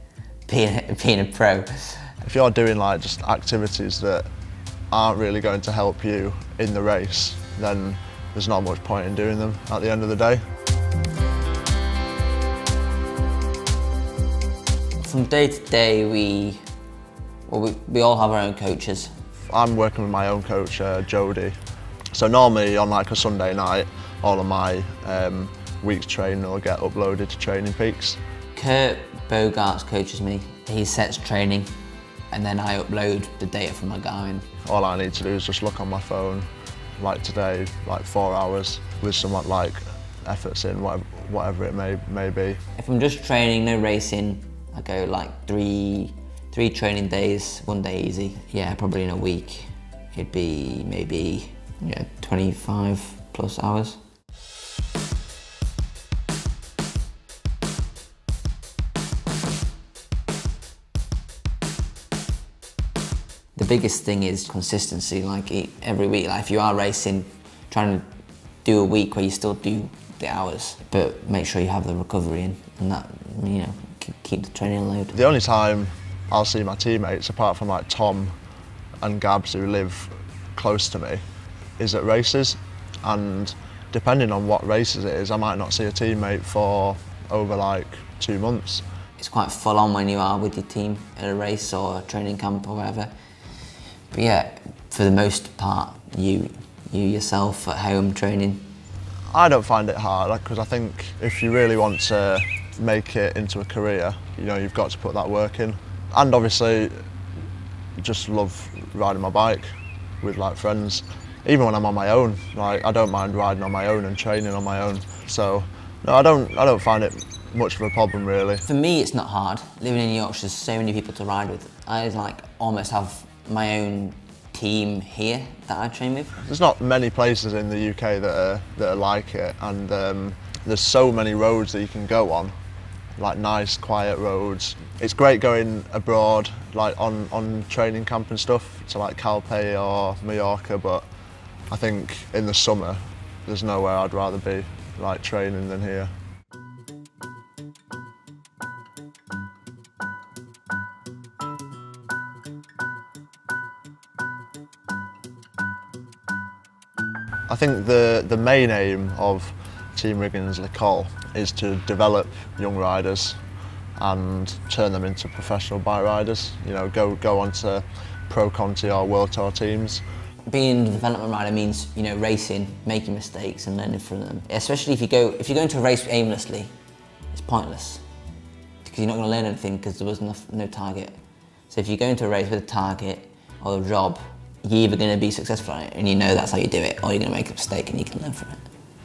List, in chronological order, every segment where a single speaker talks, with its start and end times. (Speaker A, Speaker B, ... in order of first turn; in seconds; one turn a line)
Speaker A: 0.5-2.1
Speaker B: 2.2-4.3
Speaker B: 4.9-10.4
Speaker A: 15.0-16.6
Speaker A: 17.5-19.1
Speaker B: 19.5-21.6
Speaker B: 22.1-28.2
Speaker A: 28.6-31.7
Speaker A: 32.3-34.5
Speaker B: 34.6-36.5
Speaker B: 37.0-42.6
Speaker A: 42.8-54.0
Speaker A: 63.6-68.1
Speaker A: 68.6-75.2
Speaker B: 75.1-78.3
Speaker B: 79.0-81.2
Speaker B: 81.8-88.8
Speaker A: 89.2-93.1
Speaker A: 94.1-98.7
Speaker B: 99.3-107.0
Speaker B: 108.0-109.7
Speaker B: 110.2-118.7
Speaker A: 118.7-126.4
Speaker B: 126.4-132.6
Speaker B: 133.2-141.1
Speaker B: 141.7-146.1
Speaker B: 157.5-163.4
Speaker B: 164.0-170.1
Speaker A: 170.5-176.7
Speaker A: 177.3-178.0
Speaker A: 178.8-181.2
Speaker A: 181.7-188.7